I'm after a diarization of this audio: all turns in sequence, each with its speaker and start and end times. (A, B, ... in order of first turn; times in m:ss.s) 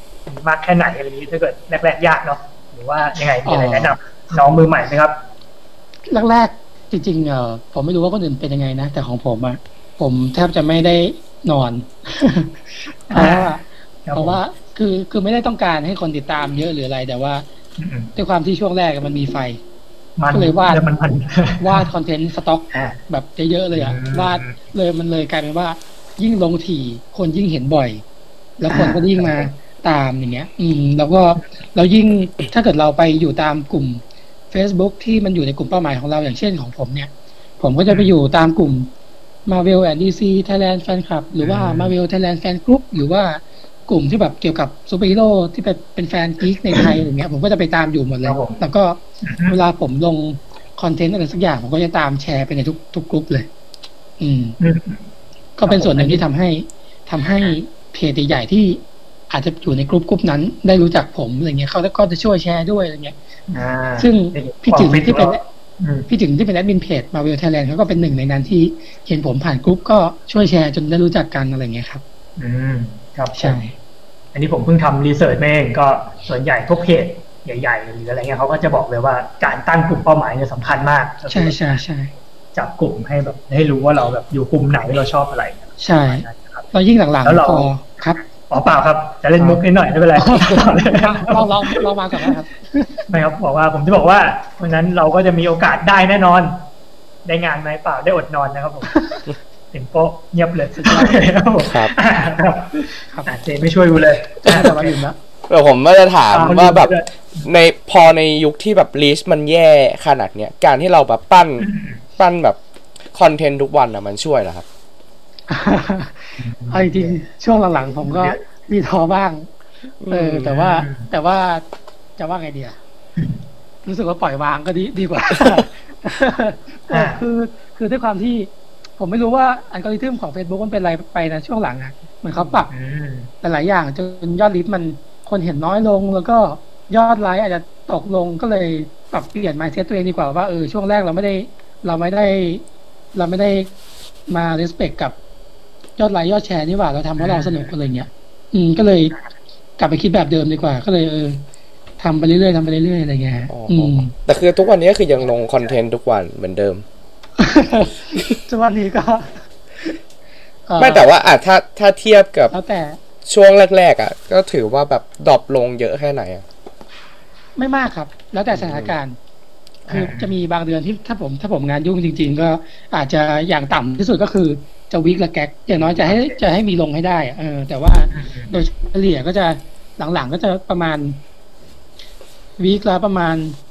0:00.3-0:05.2 A
0:03.4-0:04.0 B
0:06.1-0:12.6 B
0:13.1-0:17.4 B
0:13.1-0:13.5 A
0:14.1-0:14.4 A
0:17.8-0:18.1 A
0:18.2-0:19.6 B
0:20.2-0:21.9 A
0:20.3-0:20.8 B
0:21.6-0:28.0 B
0:22.7-0:23.0 A
0:23.7-0:24.6 A
0:28.6-0:38.9 B
0:28.7-0:29.5 A
0:37.9-0:38.1 A
0:39.5-0:53.5 B
0:41.4-0:41.9 A
0:48.2-0:48.6 A
0:49.2-0:49.6 A
0:54.2-0:54.6 B
0:54.6-0:55.0 A
0:55.6-1:03.2 B
0:55.7-0:56.2 A
1:03.5-1:06.1 A
1:04.0-1:05.4 B
1:06.1-1:12.0 B
1:12.4-1:13.6 A
1:13.4-1:13.7 B
1:14.3-1:21.8 A
1:21.3-1:22.1 B
1:22.5-1:26.7 A
1:25.8-1:28.2 B
1:27.2-1:32.3 A
1:30.2-1:33.1 B
1:33.1-1:36.6 A
1:37.2-1:39.1 A
1:38.9-1:39.2 B
1:39.7-1:45.0 A
1:40.8-1:41.1 B
1:41.6-1:41.9 C
1:43.1-1:43.4 B
1:44.4-1:45.2 B
1:45.5-1:46.9 C
1:46.3-1:47.5 A
1:47.4-1:51.7 C
1:51.6-1:52.0 A
1:52.2-1:52.6 C
1:53.1-1:54.7 C
1:55.5-1:59.5 B
1:56.4-1:57.2 A
1:58.0-1:58.4 A
2:00.0-2:00.5 C
2:00.1-2:01.6 B
2:00.4-2:01.1 A
2:02.2-2:02.8 B
2:03.8-2:12.7 B
2:06.9-2:07.2 A
2:12.4-2:13.3 A
2:13.4-2:23.7 B
2:24.3-2:25.2 B
2:26.0-2:29.2 B
2:27.2-2:27.7 A
2:29.8-2:31.4 B
2:32.0-2:34.1 B
2:33.5-2:36.8 C
2:37.4-2:40.0 B
2:40.7-2:41.1 B
2:40.8-2:42.5 C
2:42.5-2:43.0 B
2:43.3-2:46.4 C
2:47.6-2:49.2 B
2:48.5-2:48.9 C
2:49.9-3:01.2 B
2:50.0-2:50.4 A
2:56.0-2:56.4 A
2:58.1-2:58.5 A
3:02.6-3:03.6 B